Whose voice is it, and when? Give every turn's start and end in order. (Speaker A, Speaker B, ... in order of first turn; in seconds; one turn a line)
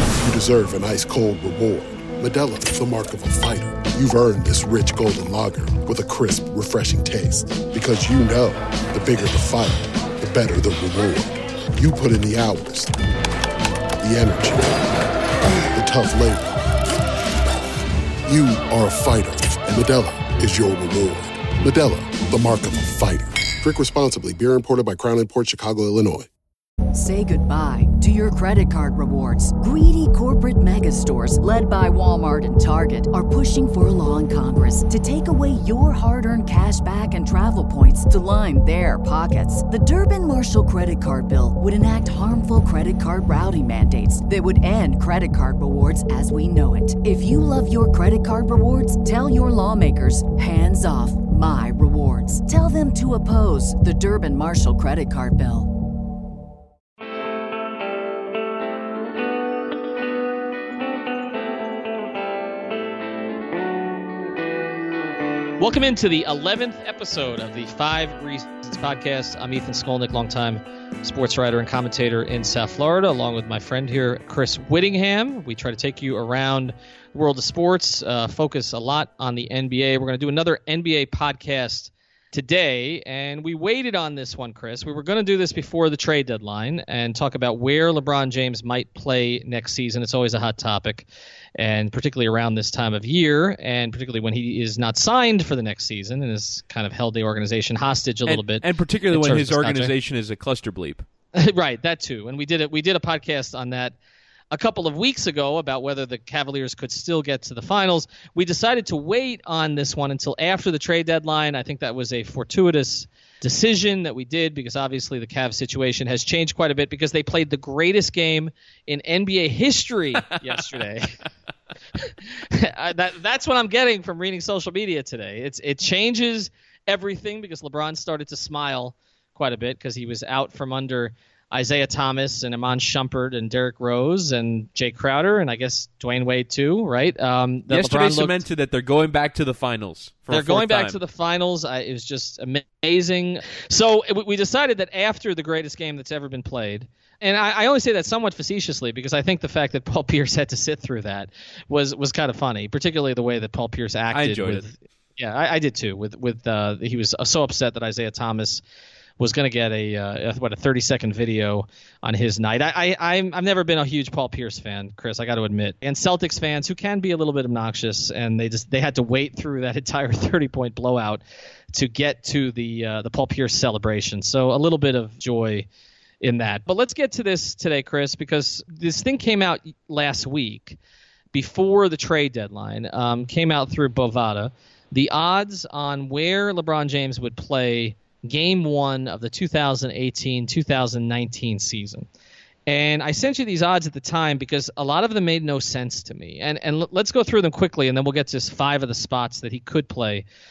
Speaker A: 0.2-13.0
Speaker A: 14.0-14.9
Speaker A: 15.7-16.8
Speaker A: 18.2-26.3
Speaker B: 26.9-55.7
Speaker C: 65.6-99.9
Speaker D: 98.3-101.0
Speaker C: 101.3-104.0
Speaker C: 104.5-121.2
Speaker C: 122.0-138.4
Speaker D: 137.7-141.0
Speaker C: 140.3-158.6
Speaker D: 154.1-154.6
Speaker C: 159.2-171.2
Speaker C: 171.7-175.7
Speaker C: 176.2-180.8
Speaker C: 181.3-192.1
Speaker C: 192.7-200.2